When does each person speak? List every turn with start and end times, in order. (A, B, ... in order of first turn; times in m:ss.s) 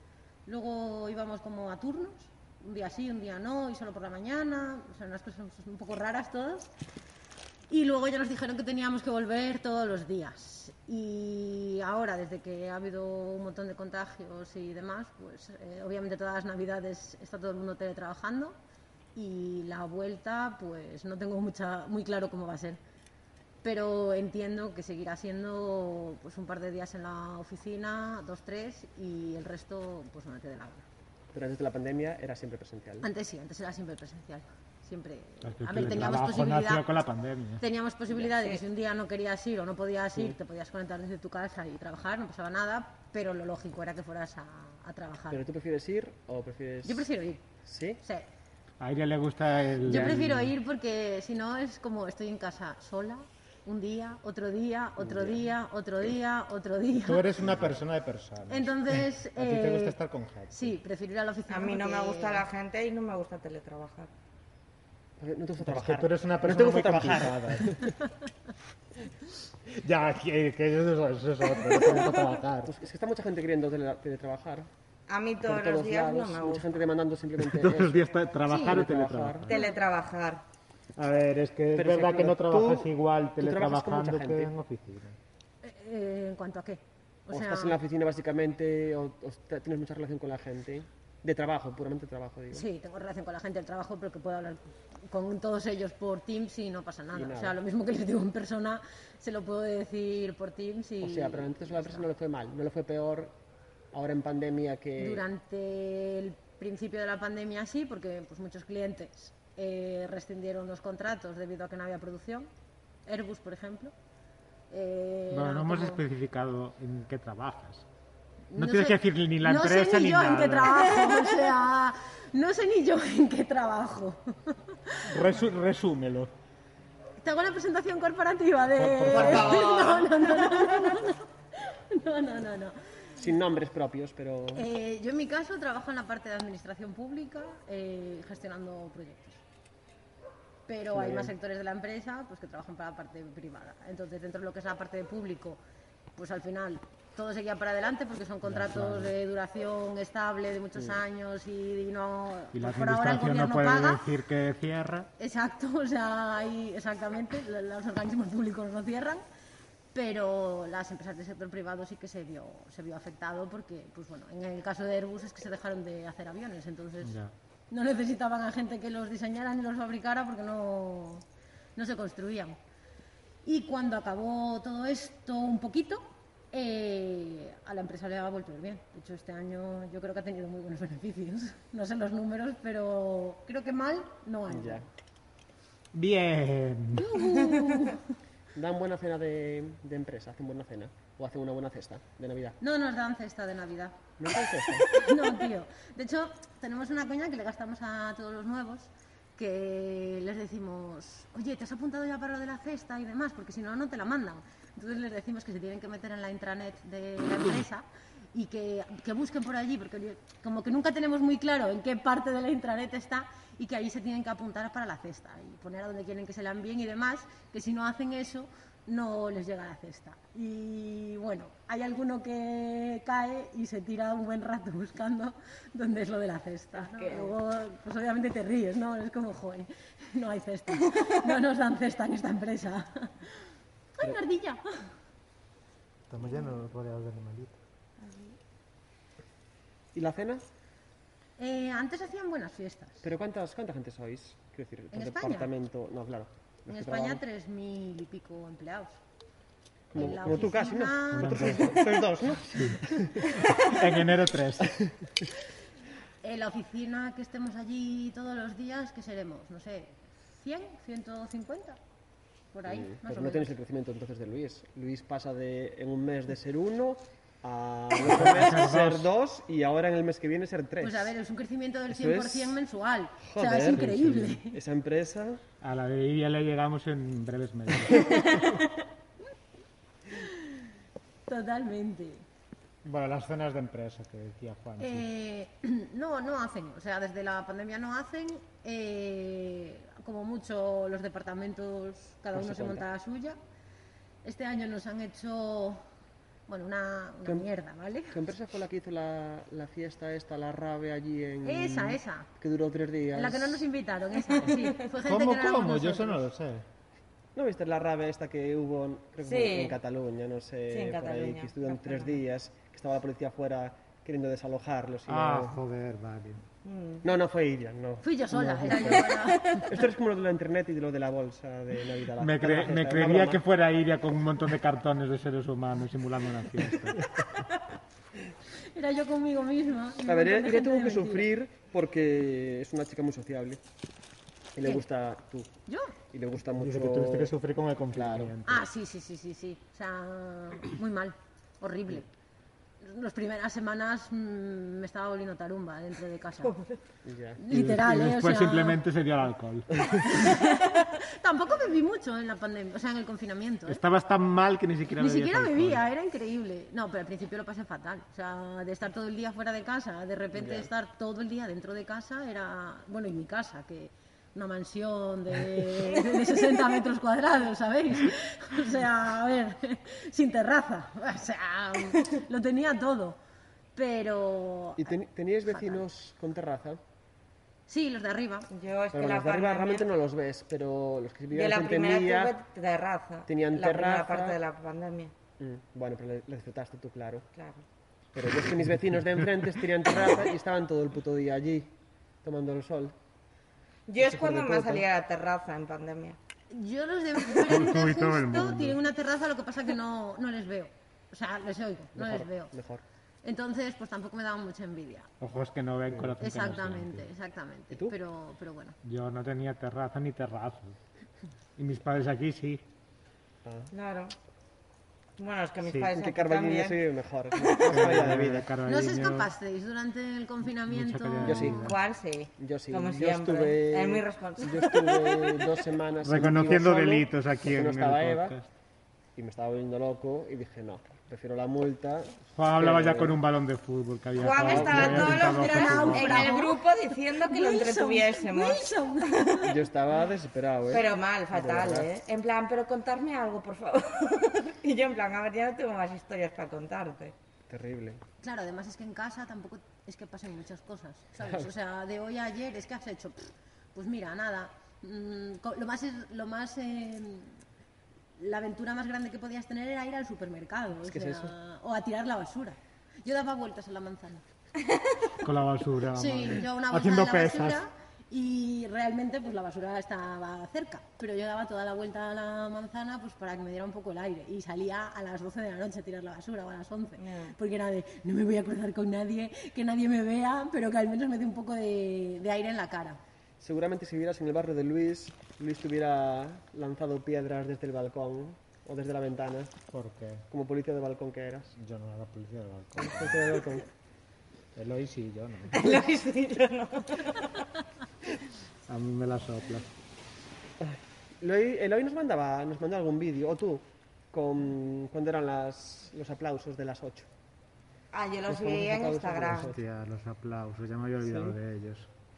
0:00.4-0:06.7 A
0:07.7-0:18.6 A
0:19.1-0:22.8 A
0:23.6-0:30.8 A
0:31.3-0:33.1 B
0:33.0-0:36.8 A
0:35.4-0:37.6 C
0:37.6-0:45.4 A
0:38.3-0:38.6 D
0:45.3-0:47.1 B
0:46.8-0:47.4 A
0:47.6-0:48.0 B
0:48.8-0:50.5 C
0:49.8-0:57.4 A
0:55.0-0:55.4 B
0:57.0-1:00.7 C
0:58.5-1:00.0 A
1:00.5-1:02.4 A
1:01.5-1:04.1 D
1:05.2-1:07.9 B
1:05.6-1:07.8 C
1:09.7-1:12.7 C
1:12.6-1:14.7 B
1:15.1-1:16.7 D
1:15.4-1:19.5 B
1:17.4-1:19.5 C
1:18.5-1:18.8 A
1:19.5-1:20.4 D
1:19.5-1:19.8 A
1:21.0-1:25.2 C
1:21.7-1:24.5 B
1:25.6-1:27.8 A
1:27.3-1:32.6 B
1:32.5-1:42.1 A
1:37.1-1:37.6 B
1:41.0-1:43.3 B
1:43.9-1:45.2 B
1:45.0-1:52.5 A
1:53.0-1:53.9 A
1:54.7-1:56.0 A
1:55.3-1:57.8 C
1:58.5-2:05.2 A
1:58.5-2:00.9 C
2:05.0-2:06.3 C
2:07.2-2:12.8 A
2:08.7-2:09.8 C
2:09.1-2:10.8 D
2:13.2-2:14.6 B
2:14.5-2:19.4 A
2:20.7-2:25.6 A
2:20.9-2:21.3 B
2:26.2-2:34.0 A
2:28.4-2:29.1 C
2:32.5-2:35.1 C
2:35.2-2:39.2 A
2:39.9-2:47.2 A
2:47.0-2:47.3 C
2:47.7-2:51.2 A
2:51.8-2:52.6 A
2:53.4-3:04.9 A
3:04.5-3:04.8 B
3:05.9-3:07.3 C
3:06.9-3:08.2 A
3:08.5-3:12.6 B
3:12.6-3:14.0 A
3:14.2-3:14.9 B
3:14.9-3:54.9 A
3:46.8-3:47.3 D
3:56.1-3:57.6 C
3:58.0-3:58.3 D
3:59.9-4:00.4 B
4:01.4-4:03.0 A
4:03.0-4:07.2 B
4:04.9-4:05.5 A
4:06.7-4:09.0 A
4:09.9-4:13.3 B
4:09.9-4:11.8 A
4:11.1-4:14.8 C
4:16.2-4:21.8 A
4:22.5-4:23.5 A
4:22.7-4:31.1 B
4:28.0-4:29.1 C
4:30.8-4:34.6 A
4:31.9-4:32.6 B
4:33.2-4:35.4 B
4:33.8-4:34.3 C
4:35.6-4:38.3 C
4:40.1-4:40.5 A
4:41.3-4:42.2 A
4:42.8-4:45.0 C
4:44.8-4:53.4 A
4:52.3-4:52.8 B
4:54.2-4:55.8 A
4:56.5-4:58.2 A
4:58.1-5:03.6 B
5:01.4-5:02.3 A
5:03.1-5:06.2 A
5:04.4-5:04.8 D
5:04.9-5:06.6 C
5:07.3-5:15.6 B
5:09.2-5:09.8 D
5:10.7-5:12.2 D
5:15.1-5:16.4 C
5:16.6-5:17.0 D
5:17.0-5:23.4 B
5:18.0-5:19.8 A
5:22.2-5:27.0 C
5:28.7-5:31.3 A
5:30.0-5:33.6 B
5:34.5-5:35.5 B
5:35.7-5:35.9 A
5:36.1-5:37.3 B
5:36.6-5:38.6 C
5:37.9-5:38.3 B
5:38.4-5:42.1 A
5:42.8-5:46.6 A
5:47.0-5:47.4 B
5:47.4-5:48.8 A
5:47.5-5:50.0 C
5:50.0-5:53.8 A
5:53.7-5:55.8 C
5:55.0-6:13.2 A
6:00.3-6:00.7 B
6:13.7-6:14.9 A
6:14.8-6:16.8 B
6:15.5-6:15.8 A
6:17.7-6:18.5 A
6:18.5-6:19.9 D
6:18.9-6:22.3 B
6:21.3-6:25.1 D
6:23.3-6:24.4 B
6:25.4-6:27.2 B
6:27.3-6:27.6 D
6:28.1-6:31.7 B
6:32.2-6:32.9 B
6:33.9-6:36.2 D
6:34.0-6:34.8 B
6:36.5-6:42.5 A
6:37.4-6:38.8 C
6:42.0-6:42.8 B
6:43.2-6:45.1 A
6:45.2-6:47.1 C
6:46.2-6:48.8 A
6:48.8-6:50.8 C
6:51.6-6:52.6 C
6:53.4-6:53.7 B
6:53.7-6:54.1 D
6:55.2-6:56.8 D
6:55.6-6:55.9 C
6:55.9-6:58.5 B
6:57.6-6:59.3 C
6:58.6-7:01.7 A
7:00.6-7:01.8 C
7:01.2-7:01.7 B
7:01.6-7:05.6 D
7:02.4-7:08.3 B
7:06.0-7:08.5 C
7:09.2-7:13.2 B
7:12.4-7:16.4 C
7:14.2-7:19.4 D
7:14.4-7:15.2 B
7:15.1-7:19.5 A
7:19.4-7:21.9 B
7:20.7-7:27.1 D
7:27.5-7:28.0 B
7:28.2-7:37.4 A
7:31.2-7:31.5 B
7:38.2-7:44.2 A
7:40.8-7:41.3 B
7:45.2-7:47.6 C
7:45.9-8:03.0 A
7:57.0-7:57.4 D
8:03.4-8:09.5 B
8:09.7-8:10.2 C
8:10.3-8:11.5 B
8:11.6-8:13.4 C
8:12.8-8:13.6 B
8:14.5-8:15.7 C
8:15.5-8:17.4 D
8:18.7-8:19.7 C
8:20.6-8:27.1 B
8:27.9-8:29.5 D
8:28.3-8:29.6 B
8:29.5-8:31.9 C
8:31.0-8:31.4 B